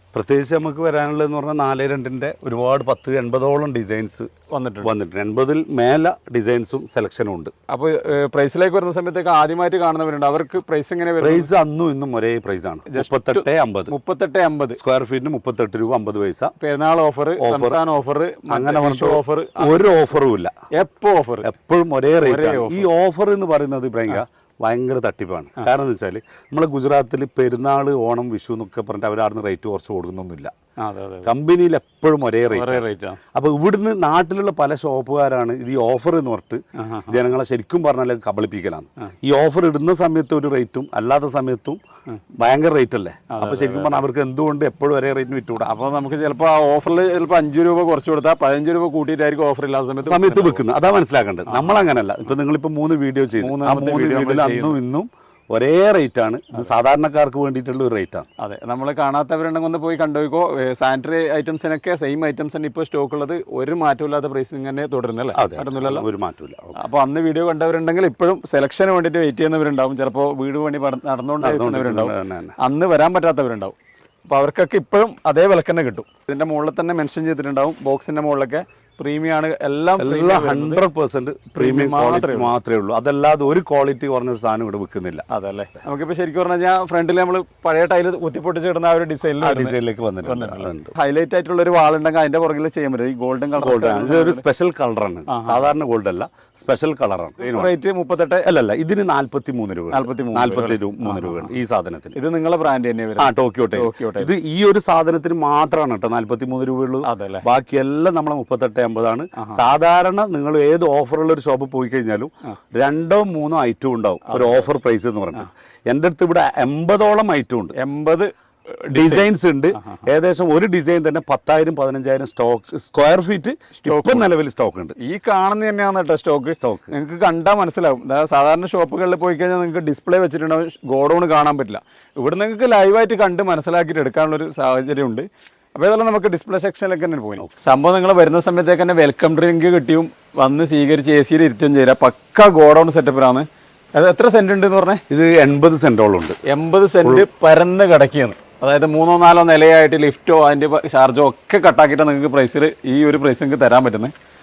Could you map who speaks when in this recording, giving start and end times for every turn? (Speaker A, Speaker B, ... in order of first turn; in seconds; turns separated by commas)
Speaker A: 0.1-4.3, Speaker B: 4.5-4.9, Speaker A: 4.8-7.5, Speaker B: 7.7-11.5, Speaker A: 11.2-13.9, Speaker B: 12.9-14.8, Speaker A: 14.8-16.5, Speaker B: 16.6-19.8, Speaker A: 17.4-17.8, Speaker A: 18.5-20.5, Speaker B: 20.7-21.5, Speaker A: 21.4-30.5, Speaker B: 22.2-22.9, Speaker B: 30.8-31.3, Speaker A: 31.2-41.8, Speaker B: 32.5-33.2, Speaker B: 36.8-37.2, Speaker A: 42.4-45.7, Speaker B: 43.3-44.0, Speaker B: 45.6-50.6, Speaker A: 50.0-58.3, Speaker B: 51.5-51.9, Speaker B: 53.4-54.8, Speaker B: 58.4-66.0, Speaker A: 65.3-66.8, Speaker B: 66.8-73.8, Speaker A: 71.4-72.5, Speaker B: 74.3-80.8, Speaker A: 80.0-85.2, Speaker B: 81.5-82.5, Speaker B: 85.3-94.4, Speaker A: 89.4-90.9, Speaker A: 93.6-97.7, Speaker B: 95.3-95.7, Speaker B: 97.4-98.5, Speaker A: 98.4-102.2, Speaker B: 99.9-101.5, Speaker B: 102.1-104.3, Speaker A: 103.2-117.7, Speaker B: 107.0-107.4, Speaker B: 109.4-109.6, Speaker B: 114.2-114.7, Speaker B: 117.8-119.3, Speaker A: 118.9-125.0, Speaker B: 123.8-124.3, Speaker B: 125.0-145.0, Speaker A: 126.6-126.9, Speaker A: 145.1-146.4, Speaker B: 146.4-154.1